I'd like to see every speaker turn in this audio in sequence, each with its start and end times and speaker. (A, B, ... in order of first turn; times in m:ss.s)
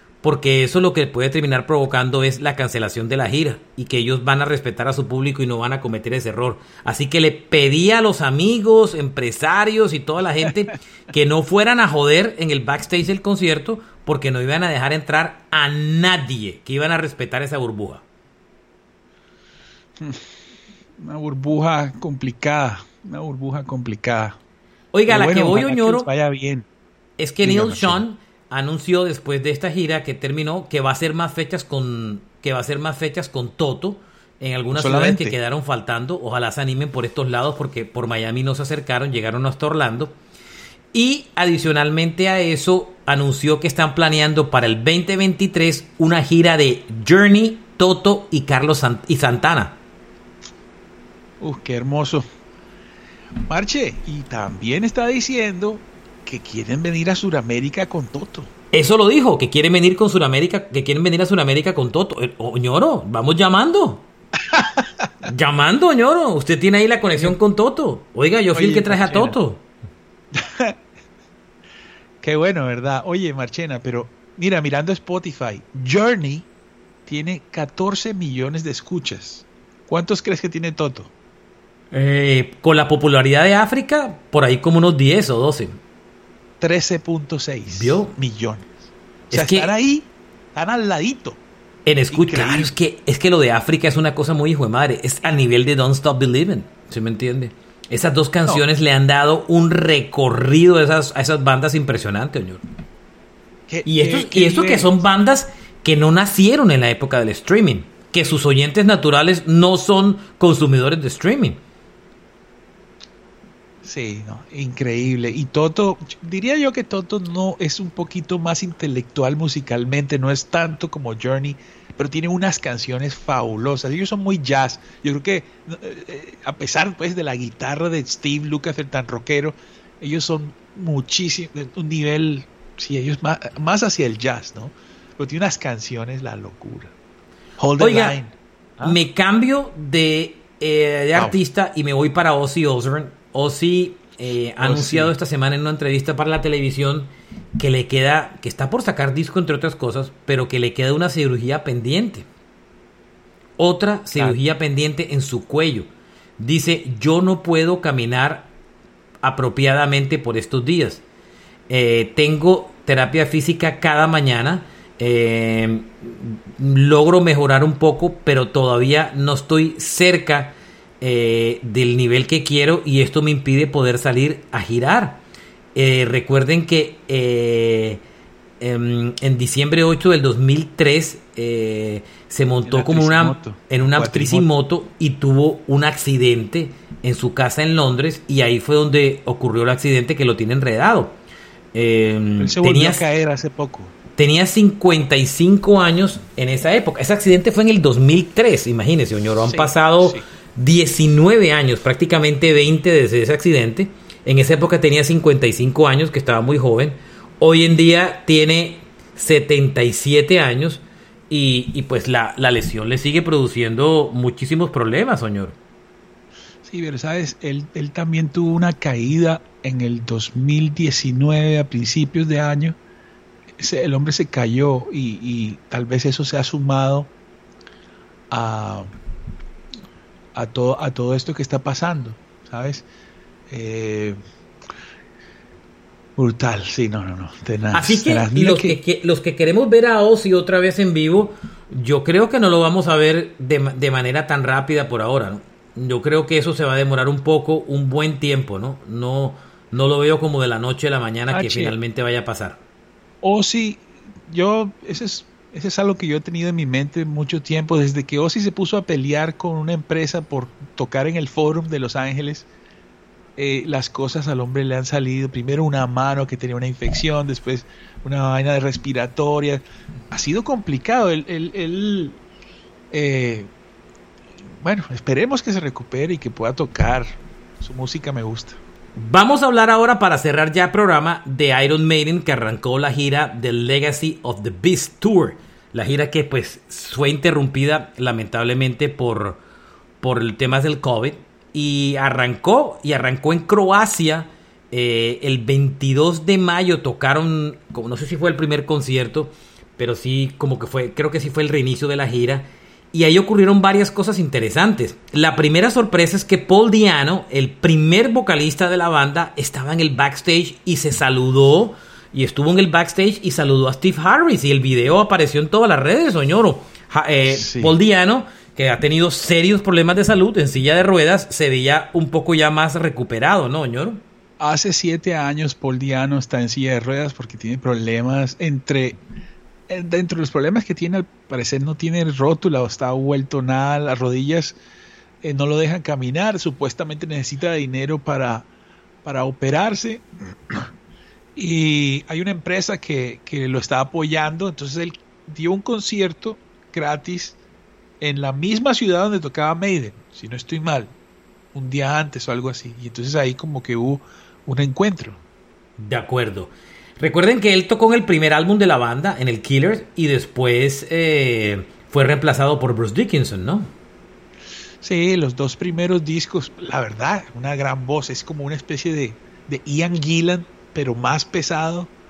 0:00.2-0:18.0 A
0:20.0-0:20.2 B
0:21.0-0:24.4 B
0:24.9-0:26.1 A
0:25.1-0:26.7 B
0:27.2-0:40.2 A
0:27.4-0:28.0 B
0:34.7-0:35.4 B
0:40.9-0:49.8 A
0:51.4-0:52.2 B
0:53.4-0:58.5 B
0:58.7-1:04.1 A
1:04.5-1:04.9 B
1:05.2-1:09.6 A
1:08.5-1:09.4 B
1:10.3-1:10.8 B
1:12.2-1:16.5 B
1:17.0-1:21.1 B
1:21.9-1:25.8 A
1:26.6-1:28.8 B
1:27.7-1:28.1 A
1:29.3-1:31.4 B
1:29.3-1:29.7 A
1:31.8-1:42.6 A
1:32.1-1:32.7 B
1:43.7-1:45.0 B
1:43.8-1:51.6 A
1:53.8-2:16.9 B
2:17.6-2:19.0 B
2:17.8-2:18.2 A
2:18.8-2:32.3 A
2:24.6-2:25.1 B
2:33.6-2:38.5 A
2:39.2-2:41.0 A
2:41.7-2:55.2 A
2:55.7-2:58.0 A
2:58.6-3:11.1 A
3:02.6-3:04.5 B
3:11.7-3:13.0 A
3:12.4-3:13.9 B
3:14.2-3:35.6 A
3:19.4-3:20.2 B
3:36.6-3:42.8 B
3:43.6-3:47.1 B
3:48.3-3:48.9 B
3:50.3-3:52.8 B
3:53.5-3:54.2 B
3:56.2-3:58.8 B
3:57.7-4:12.6 A
4:11.3-4:11.8 B
4:13.2-4:22.5 B
4:23.4-4:32.2 B
4:32.9-4:33.5 B
4:34.6-4:38.6 B
4:39.0-4:49.4 A
4:50.0-5:24.0 A
5:17.3-5:17.8 B
5:24.4-5:29.0 B
5:29.7-5:34.6 B
5:35.2-5:38.5 B
5:39.0-5:40.7 B
5:41.3-5:47.4 B
5:48.0-5:50.9 B
5:51.5-5:55.2 B
5:55.8-6:03.7 A
6:04.8-6:11.9 B